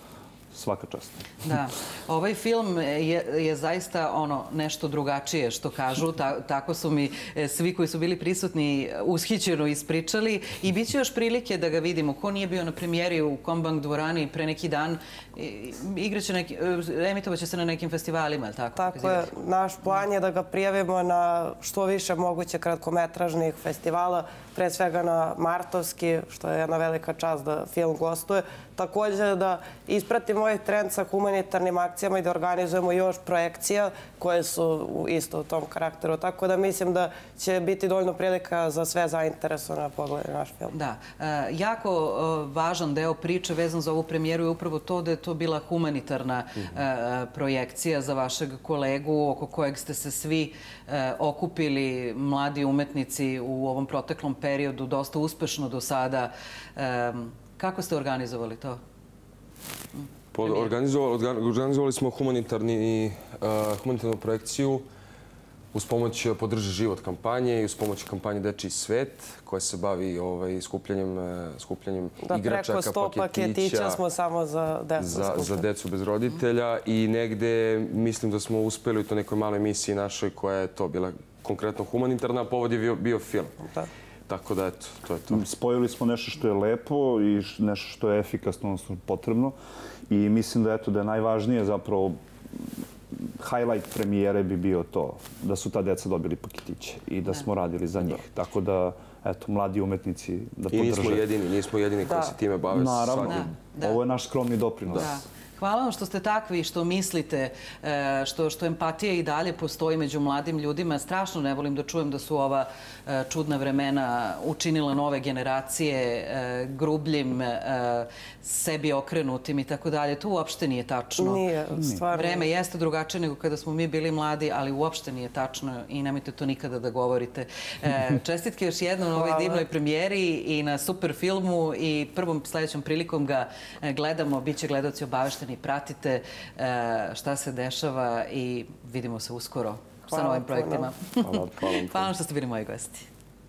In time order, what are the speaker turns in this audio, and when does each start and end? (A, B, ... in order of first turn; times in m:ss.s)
0:00.5-0:01.2 A
0:01.4-0:19.3 B
0:18.7-0:40.7 C
0:40.7-0:58.8 B
1:00.3-1:04.8 D
1:00.4-1:00.7 B
1:05.7-1:14.0 D
1:12.2-1:15.7 C
1:15.0-1:23.5 D
1:23.6-1:23.9 C
1:24.3-1:25.4 D
1:25.3-1:29.5 A
1:30.1-1:32.2 A
1:33.4-1:41.3 A
1:40.7-1:43.4 D
1:42.0-1:42.3 C
1:42.7-1:45.2 A
1:43.3-1:44.0 B
1:45.0-2:01.4 B
2:01.2-2:02.5 C
2:01.7-2:02.0 A
2:02.1-2:23.1 B
2:09.1-2:09.6 C
2:20.1-2:20.9 C
2:21.2-2:22.1 A